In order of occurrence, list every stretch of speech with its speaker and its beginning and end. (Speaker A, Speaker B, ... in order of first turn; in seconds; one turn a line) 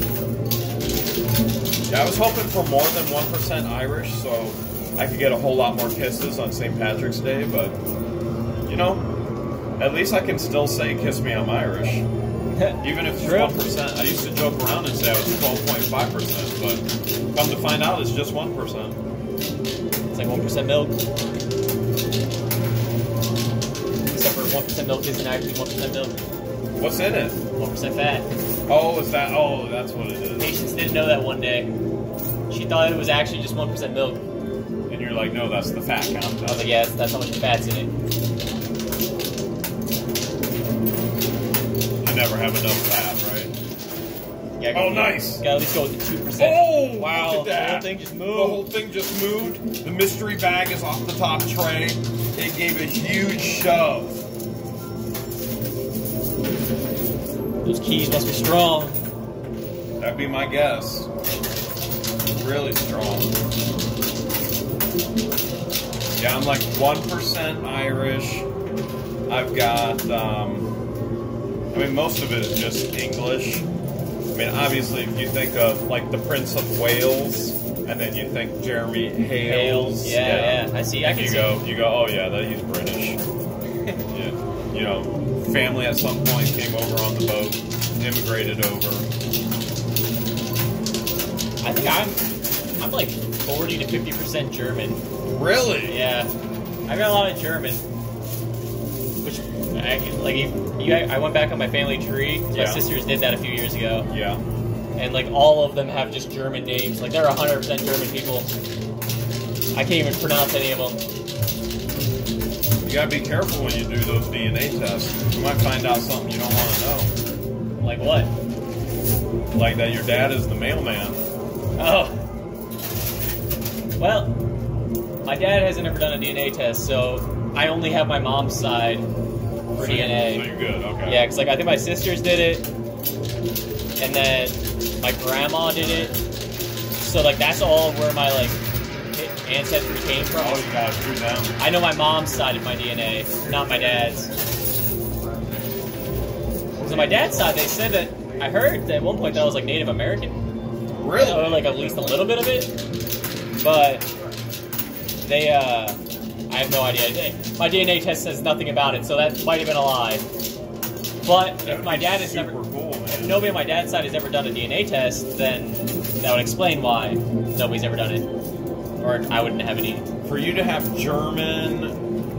Speaker A: 1.9-7.8
Speaker A: 8.7-9.1
Speaker A: 9.8-12.1
Speaker B: 12.6-13.6
Speaker A: 12.8-19.0
Speaker B: 20.1-21.0
Speaker B: 24.1-26.2
Speaker A: 26.8-27.4
Speaker B: 27.6-28.3
Speaker A: 28.7-30.5
Speaker B: 30.4-31.7
Speaker B: 32.5-34.2
Speaker A: 34.9-36.7
Speaker B: 36.5-37.9
Speaker A: 42.0-43.5
Speaker B: 44.6-48.7
Speaker A: 44.7-45.4
Speaker A: 46.4-54.2
Speaker B: 57.6-59.0
Speaker A: 60.0-61.1
Speaker A: 62.3-63.3
Speaker A: 66.2-68.5
Speaker A: 69.3-70.7
Speaker A: 71.7-73.7
Speaker A: 74.3-83.2
Speaker B: 79.4-81.6
Speaker A: 84.1-89.1
Speaker B: 91.6-92.2
Speaker B: 92.8-95.0
Speaker A: 95.3-96.0
Speaker B: 95.9-96.3
Speaker B: 96.9-97.8
Speaker B: 99.2-104.1
Speaker A: 102.5-102.8
Speaker A: 104.1-104.4
Speaker B: 105.0-108.5
Speaker B: 109.8-111.0
Speaker A: 112.8-117.1
Speaker B: 117.8-118.3
Speaker A: 119.5-121.2
Speaker B: 121.8-122.2
Speaker B: 124.0-124.4
Speaker B: 125.2-129.1
Speaker B: 129.7-130.5
Speaker A: 129.8-131.2
Speaker B: 131.1-132.7
Speaker B: 134.0-136.1
Speaker B: 137.0-138.6
Speaker B: 139.1-140.7
Speaker A: 140.4-141.5
Speaker B: 141.6-144.3
Speaker B: 146.8-150.4
Speaker A: 150.9-152.0
Speaker B: 151.2-152.7
Speaker B: 153.6-154.1
Speaker B: 155.3-156.0
Speaker B: 156.5-160.2
Speaker B: 161.2-162.6
Speaker A: 161.6-163.5
Speaker B: 163.1-168.3
Speaker B: 169.0-170.1
Speaker A: 170.2-172.0